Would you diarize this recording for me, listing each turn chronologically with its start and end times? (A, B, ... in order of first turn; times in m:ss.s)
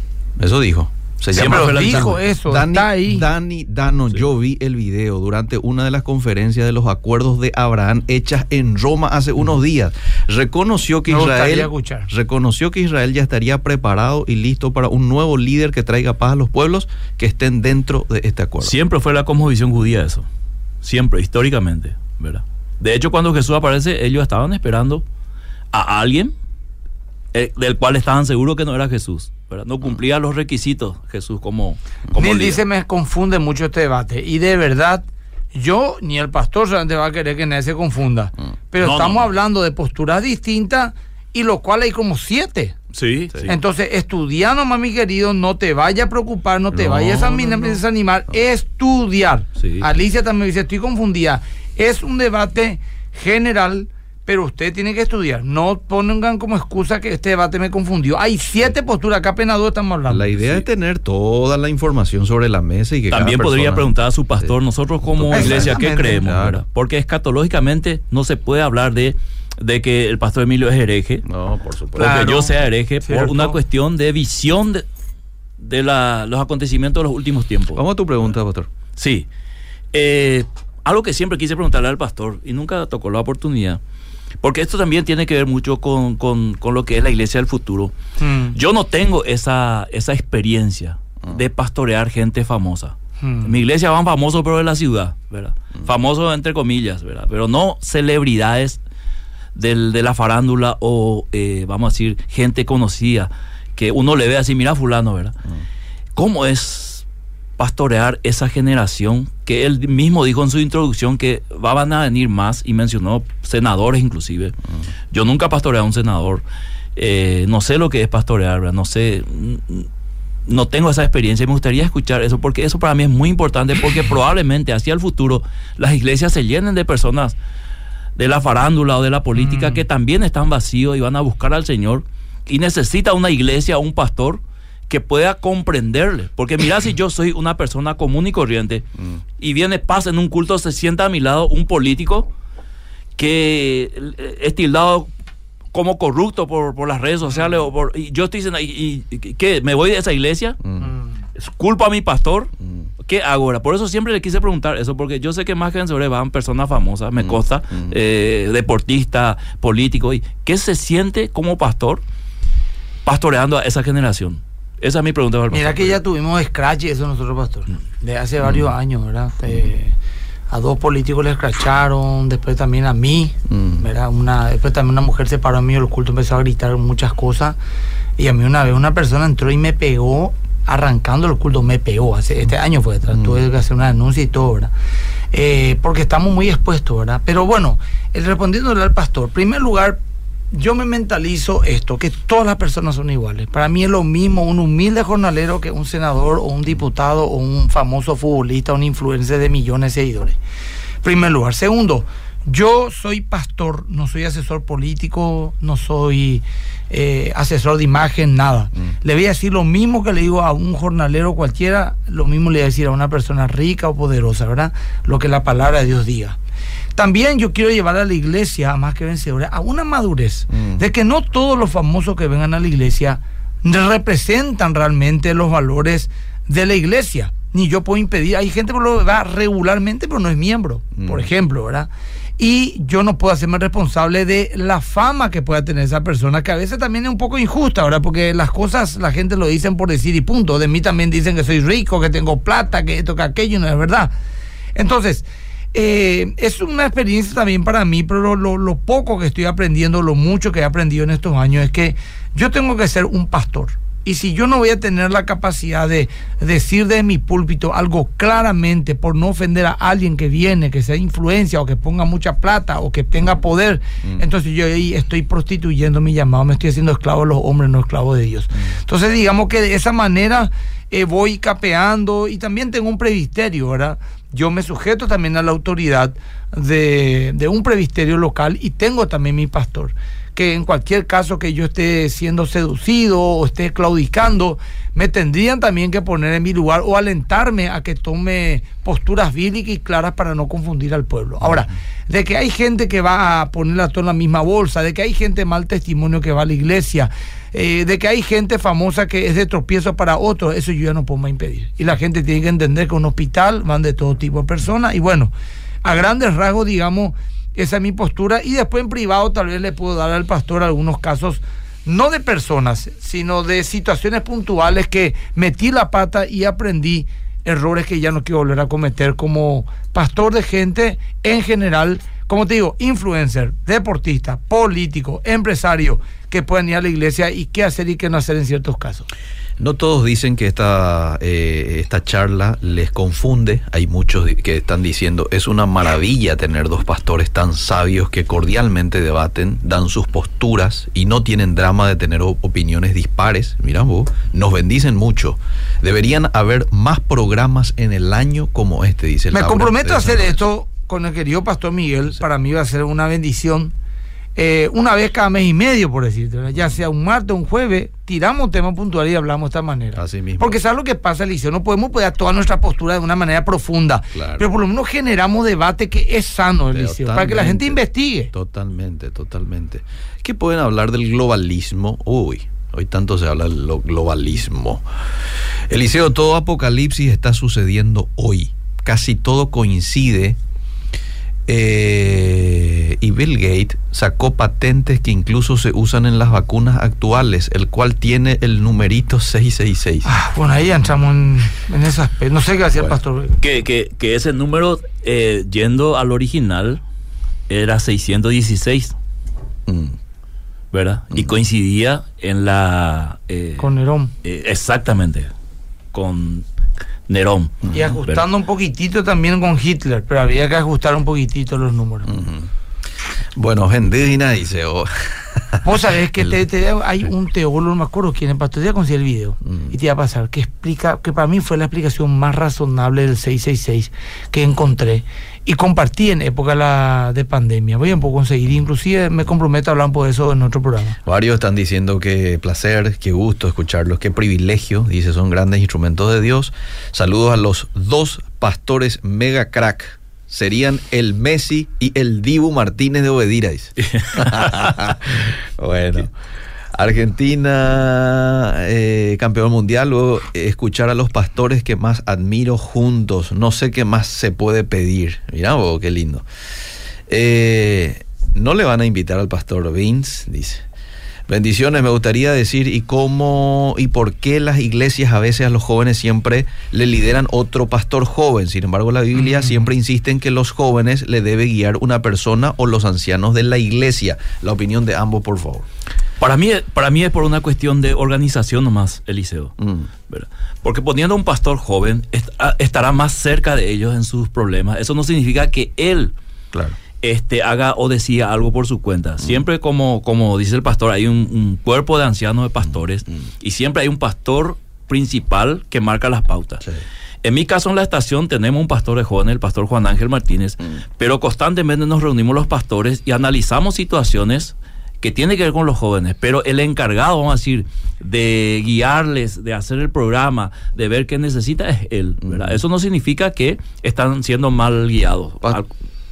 0:00.4-0:18.8 A
0:01.3-0:02.2 B
0:01.3-0:03.3 C
0:11.1-0:12.1 C
0:18.6-0:20.3 B
0:20.8-0:25.0 B
0:25.7-0:26.3 B
0:27.3-0:32.6 B
0:32.2-0:42.8 C
0:38.8-0:39.3 B
0:42.9-0:43.5 B
0:43.5-1:00.6 C
0:46.8-0:47.8 B
0:49.6-0:49.9 B
1:00.1-1:03.9 A
1:03.1-1:11.2 B
1:05.1-1:06.6 A
1:05.3-1:06.3 C
1:11.3-1:12.1 A
1:12.0-1:14.8 B
1:12.0-1:13.6 C
1:15.6-1:17.8 B
1:17.8-1:18.7 A
1:19.0-1:19.3 B
1:19.9-1:23.8 B
1:24.4-1:27.9 B
1:28.2-1:28.6 C
1:28.5-1:38.8 B
1:33.2-1:33.6 C
1:39.6-1:45.4 B
1:46.2-1:47.0 B
1:47.6-1:54.6 B
1:55.1-1:56.4 B
1:57.0-1:59.9 B
2:00.5-2:07.4 B
2:08.2-2:18.9 B
2:09.4-2:09.8 C
2:19.4-2:22.3 B
2:23.2-2:25.1 B
2:25.7-2:30.6 B
2:30.6-2:30.9 A
2:31.4-2:32.5 B
2:32.6-2:32.9 A
2:33.0-2:42.0 B
2:37.2-2:37.9 A
2:43.0-2:46.0 B
2:45.5-2:50.0 C
2:50.5-2:57.6 C
2:53.5-2:53.8 A
2:58.2-3:04.7 C
3:05.3-3:10.0 C
3:10.5-3:20.4 C
3:21.0-3:36.4 C
3:37.0-4:04.1 C
3:51.0-3:51.3 A
4:04.8-5:05.3 C
5:05.8-5:29.1 C
5:29.6-5:50.4 A
5:49.3-5:53.7 C
5:54.4-6:08.3 C
6:00.0-6:00.6 A
6:04.1-6:04.4 A
6:06.7-6:14.8 A
6:15.7-6:20.4 A
6:21.5-6:30.1 A
6:30.0-6:33.4 C
6:33.4-6:36.8 B
6:37.5-6:39.0 B
6:39.7-6:40.0 A
6:40.7-6:43.7 B
6:43.6-6:44.1 C
6:44.2-6:45.3 B
6:45.9-6:46.4 B
6:47.1-6:48.2 B
6:47.7-6:52.2 C
6:52.1-6:52.5 A
6:53.4-6:55.6 A
6:55.6-7:11.0 C
6:59.5-6:59.7 A
7:11.0-7:26.1 A
7:23.8-7:24.8 B
7:26.7-7:36.2 A
7:37.1-7:40.6 A
7:41.3-7:55.7 A
7:56.2-7:59.6 B
7:59.6-7:59.9 A
8:00.1-8:06.1 B
8:07.0-8:16.6 B
8:17.2-8:35.7 B
8:32.3-8:32.6 A